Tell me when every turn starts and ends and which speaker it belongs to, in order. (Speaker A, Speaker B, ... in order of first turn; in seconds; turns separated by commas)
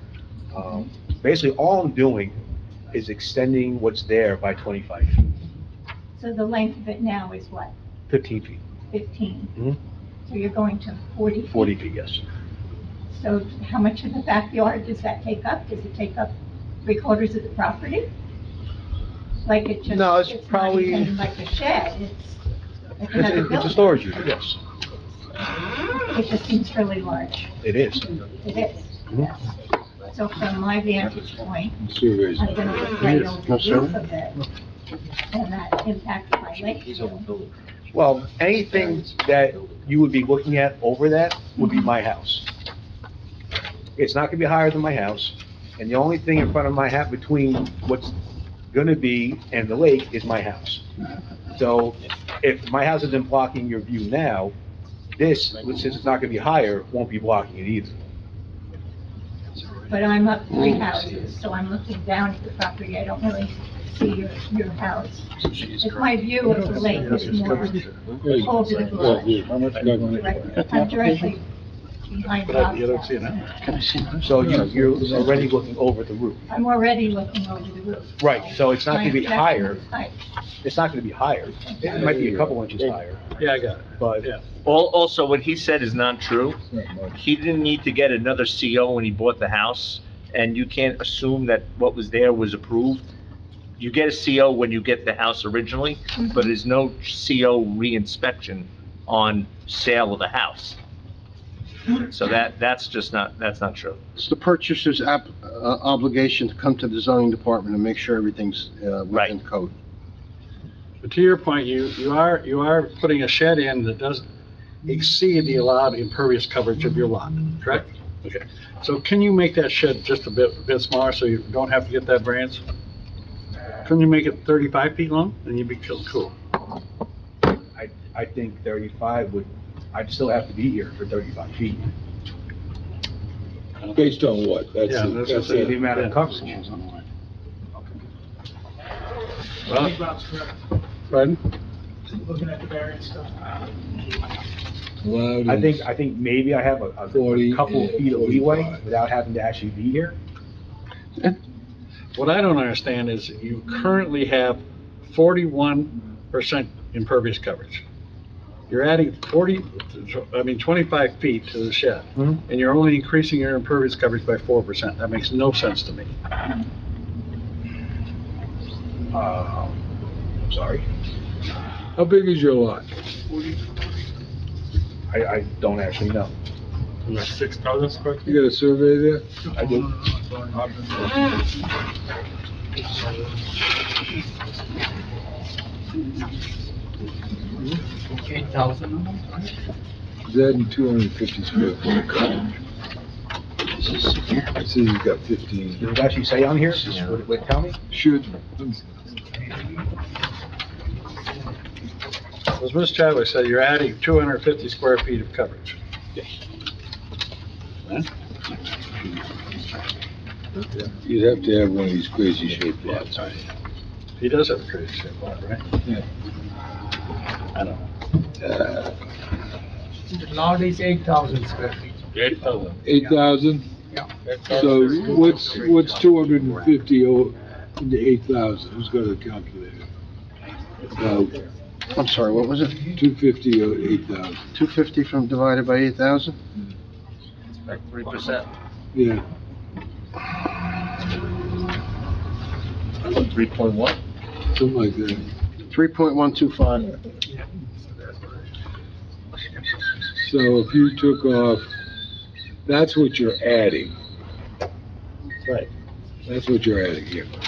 Speaker A: 0.5-2.4, Speaker A: 2.9-5.3, Speaker B: 6.2-7.7, Speaker A: 8.1-8.6, Speaker B: 8.9-9.6, Speaker B: 10.3-11.8, Speaker A: 11.5-12.2, Speaker B: 13.1-18.1, Speaker B: 19.4-22.4, Speaker A: 19.9-21.1, Speaker B: 23.0-24.0, Speaker A: 23.1-24.6, Speaker B: 26.1-29.5, Speaker A: 27.6-28.1, Speaker B: 30.1-31.8, Speaker C: 31.8-32.5, Speaker B: 32.3-34.4, Speaker D: 33.0-33.3, Speaker E: 33.5-34.0, Speaker B: 35.3-37.3, Speaker A: 37.9-42.5, Speaker A: 44.0-48.1, Speaker A: 48.7-50.8, Speaker A: 51.5-54.5, Speaker A: 55.2-58.0, Speaker B: 59.9-71.4, Speaker E: 65.5-66.0, Speaker E: 67.5-67.7, Speaker C: 68.2-70.4, Speaker E: 70.5-71.3, Speaker B: 72.0-73.5, Speaker D: 72.5-73.4, Speaker E: 73.6-74.2, Speaker A: 74.2-76.5, Speaker C: 74.4-75.5, Speaker B: 76.5-80.2, Speaker A: 78.2-79.8, Speaker A: 80.6-83.2, Speaker C: 81.8-82.8, Speaker D: 83.4-84.4, Speaker A: 84.0-84.3, Speaker F: 84.6-86.6, Speaker C: 86.7-87.2, Speaker F: 87.1-93.1, Speaker F: 93.8-100.8, Speaker B: 96.2-96.5, Speaker F: 101.9-104.0, Speaker E: 104.2-109.7, Speaker D: 111.0-114.2, Speaker D: 114.9-122.6, Speaker D: 123.8-126.3, Speaker A: 127.7-131.9, Speaker C: 133.9-135.8, Speaker D: 134.9-137.0, Speaker A: 135.5-136.7, Speaker D: 139.7-140.0, Speaker D: 141.1-141.4, Speaker A: 142.4-142.7, Speaker C: 145.0-145.9, Speaker A: 145.5-150.2, Speaker C: 147.1-148.8, Speaker D: 152.2-157.8, Speaker D: 158.7-166.1, Speaker A: 169.1-169.8, Speaker A: 170.4-170.9, Speaker C: 172.0-172.9, Speaker A: 175.1-176.3, Speaker C: 178.2-179.2, Speaker A: 179.5-179.9, Speaker G: 188.2-189.3, Speaker C: 190.2-192.5, Speaker C: 194.6-195.9, Speaker A: 195.8-197.8, Speaker C: 197.9-198.9, Speaker D: 202.6-205.8, Speaker C: 210.8-213.4, Speaker D: 214.2-215.6, Speaker D: 217.5-217.8, Speaker C: 218.4-219.0, Speaker G: 220.1-222.6, Speaker C: 222.8-223.7, Speaker C: 224.5-229.9, Speaker C: 231.0-231.5, Speaker E: 231.9-232.9, Speaker C: 232.9-234.4, Speaker E: 234.5-236.4, Speaker F: 237.7-238.5, Speaker C: 238.9-239.2, Speaker F: 243.0-244.0, Speaker C: 244.5-245.3, Speaker E: 245.7-247.0, Speaker C: 250.2-251.7, Speaker C: 252.7-253.9, Speaker D: 255.4-255.7, Speaker C: 256.3-257.4